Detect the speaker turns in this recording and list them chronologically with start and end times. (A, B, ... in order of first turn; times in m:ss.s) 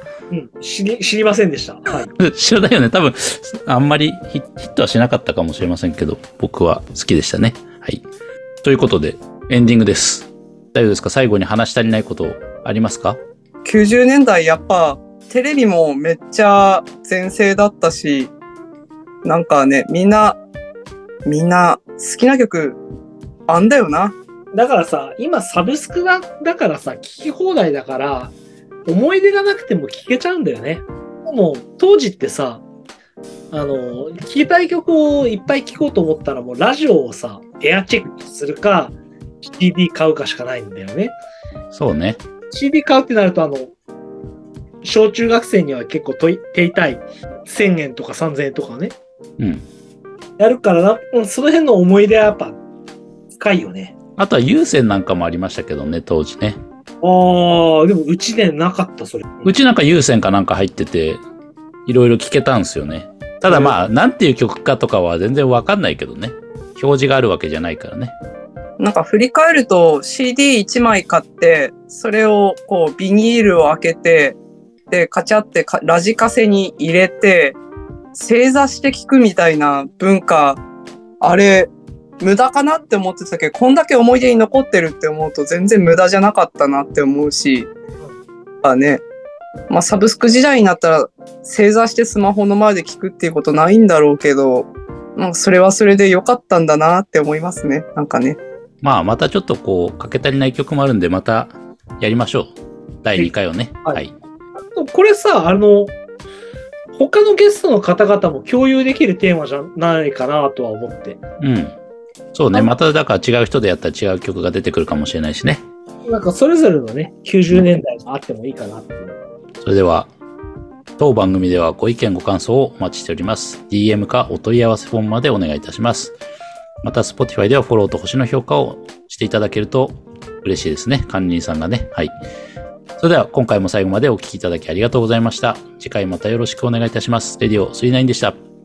0:00.3-0:02.1 A
0:02.1-0:08.0 B
0:08.6-0:13.2 B
0:13.6-0:18.3 C
0:19.2-0:20.4 C
0:21.3-0:22.8 C
0:23.5-0:24.1 C
0:24.5-0:28.3 A
0:28.9-0:32.6 A
0:33.5-0:41.2 A
0:41.7-0:42.2 B
0:42.5-0:43.7 A
0:44.8-0:49.0 A
0:49.4-0:49.6 B
0:50.4-0:52.6 A
0:53.4-0:53.9 A
0:54.2-0:56.6 B
0:57.0-0:59.5 A
0:59.4-1:01.2 B
1:01.9-1:08.1 B
1:03.5-1:03.8 A
1:08.8-1:14.4 C
1:14.9-1:17.6 C
1:18.1-1:20.6 C
1:21.2-1:27.7 C
1:28.6-1:29.0 C
1:29.7-1:38.4 C
1:38.8-1:44.1 B
1:44.6-1:45.9 A
1:47.0-1:51.2 A
1:51.4-1:51.8 B
1:52.3-1:55.6 B
1:52.5-1:52.8 A
1:56.1-1:59.2 A
1:59.6-2:00.1 B
2:01.0-2:06.1 B
2:06.8-2:12.1 B
2:13.0-2:18.4 B